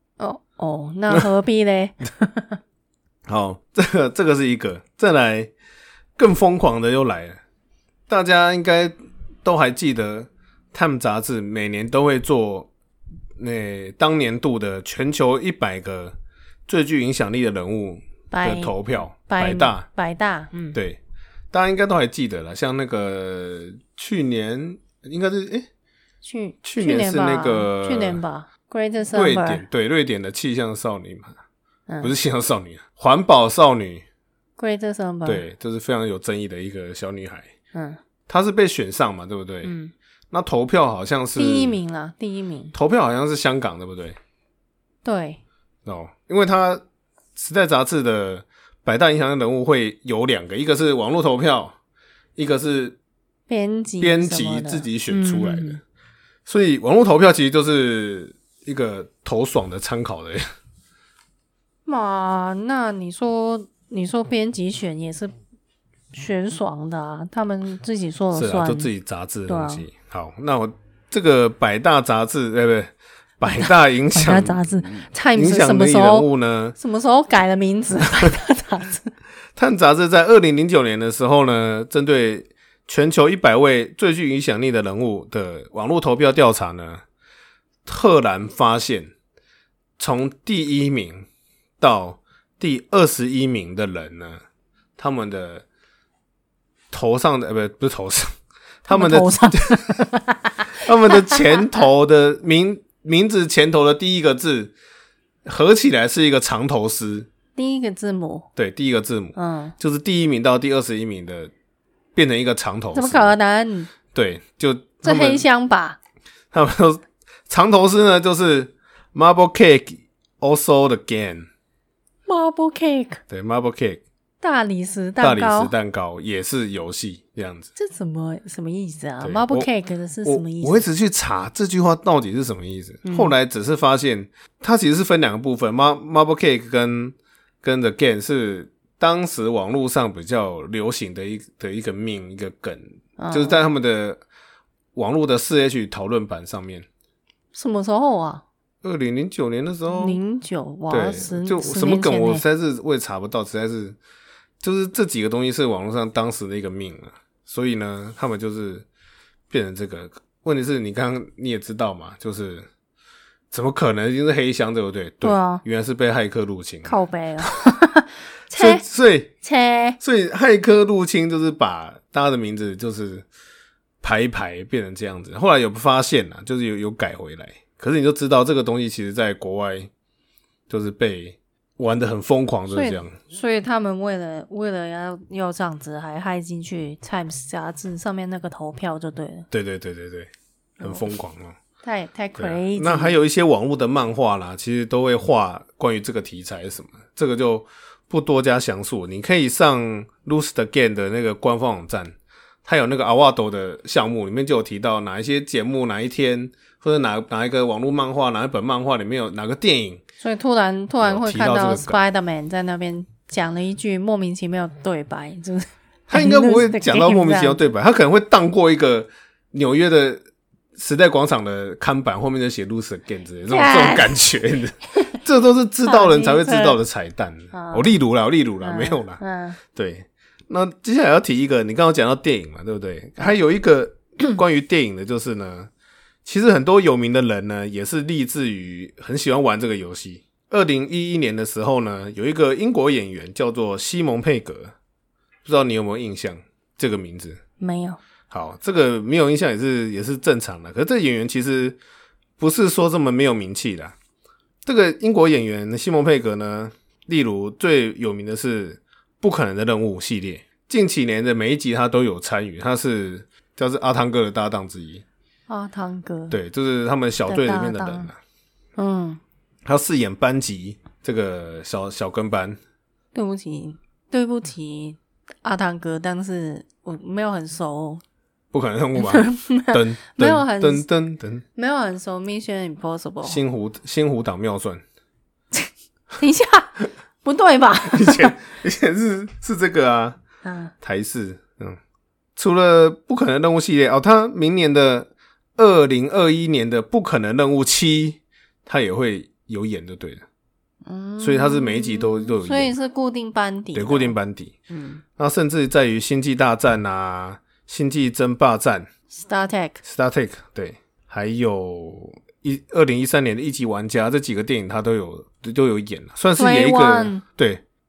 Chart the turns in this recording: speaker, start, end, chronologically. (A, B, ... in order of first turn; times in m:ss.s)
0:00.2-0:02.6 A
0:03.3-0:05.5 B
0:06.2-0:07.4 B
0:08.1-0:12.7 B
0:13.4-0:16.2 B
0:16.7-0:19.9 B
0:18.3-0:18.8 A
0:19.3-0:20.8 A
0:20.7-0:21.0 B
0:21.5-0:25.7 B
0:26.2-0:29.6 A
0:26.6-0:28.2 B
0:29.1-0:31.4 B
0:31.9-0:32.1 A
0:32.0-0:34.0 B
0:34.6-0:35.4 A
0:35.3-0:37.5 B
0:37.7-0:38.0 A
0:38.3-0:39.7 B
0:39.6-0:39.9 A
0:40.3-0:41.8 B
0:41.4-0:42.7 A
0:42.7-0:44.2 B
0:45.0-0:45.4 A
0:45.9-0:46.8 B
0:47.4-0:51.8 B
0:52.4-0:53.0 B
0:53.5-0:55.8 A
0:54.0-0:55.8 B
0:56.5-1:00.4 B
1:01.9-1:05.4 A
1:06.1-1:08.9 A
1:08.3-1:16.8 B
1:09.5-1:09.9 A
1:13.5-1:16.3 A
1:16.8-1:19.1 A
1:19.6-1:27.0 B
1:27.9-1:29.1 B
1:30.0-1:31.3 B
1:31.8-1:34.4 B
1:35.0-1:35.6 B
1:36.9-1:38.3 B
1:38.8-1:40.0 B
1:38.9-1:41.4 A
1:40.8-1:44.7 B
1:45.4-1:47.3 B
1:47.6-1:48.5 A
1:48.6-1:51.5 B
1:49.4-1:49.8 A
1:52.2-1:53.4 B
1:52.9-1:53.9 A
1:54.1-1:55.4 B
1:55.0-1:56.0 A
1:56.5-2:01.5 B
2:02.3-2:03.2 A
2:03.3-2:04.0 B
2:04.4-2:05.7 A
2:05.2-2:07.7 B
2:07.8-2:10.8 A
2:09.2-2:09.7 B
2:10.2-2:24.2 B
2:13.0-2:13.3 A
2:23.2-2:23.6 A
2:25.0-2:26.9 B
2:27.5-2:28.4 A
2:28.8-2:30.2 B
2:29.9-2:32.4 A
2:30.9-2:34.0 B
2:34.6-2:38.9 B
2:39.5-2:42.7 B
2:43.5-2:47.0 B
2:45.2-2:45.6 A
2:46.8-2:48.8 A
2:48.5-2:49.3 B
2:49.4-2:50.0 A
2:50.0-2:53.3 B
2:54.0-2:59.9 B
3:00.7-3:03.1 B
3:02.7-3:09.5 A
3:09.5-3:10.3 B
3:10.8-3:11.6 B
3:11.8-3:13.2 A
3:12.4-3:30.0 B
3:30.2-3:37.6 A
3:31.0-3:32.0 B
3:36.1-3:40.2 B
3:40.8-3:55.7 B
3:43.5-3:44.3 A
3:45.8-3:46.8 A
3:47.5-3:48.0 A
3:48.6-3:49.6 A
3:56.2-4:04.7 B
4:05.4-4:07.4 B
4:07.6-4:08.0 A
4:08.3-4:11.8 B
4:12.4-4:14.0 B
4:14.6-4:25.0 B
4:25.5-4:26.4 A
4:26.3-4:28.2 B
4:27.2-4:28.1 A
4:28.8-4:29.2 A
4:29.6-4:32.6 B
4:33.1-4:38.0 A
4:38.5-4:41.4 B
4:39.0-4:40.9 A
4:41.6-4:43.4 A
4:43.2-4:44.8 B
4:45.6-4:48.4 A
4:47.9-4:50.2 B
4:50.4-4:50.7 A
4:50.8-4:51.8 B
4:52.4-5:00.2 B
5:00.8-5:04.2 A
5:01.2-5:02.7 B
5:03.8-5:04.5 B
5:04.7-5:05.0 A
5:05.2-5:08.9 B
5:09.1-5:09.8 A
5:09.8-5:17.6 B
5:16.4-5:17.2 A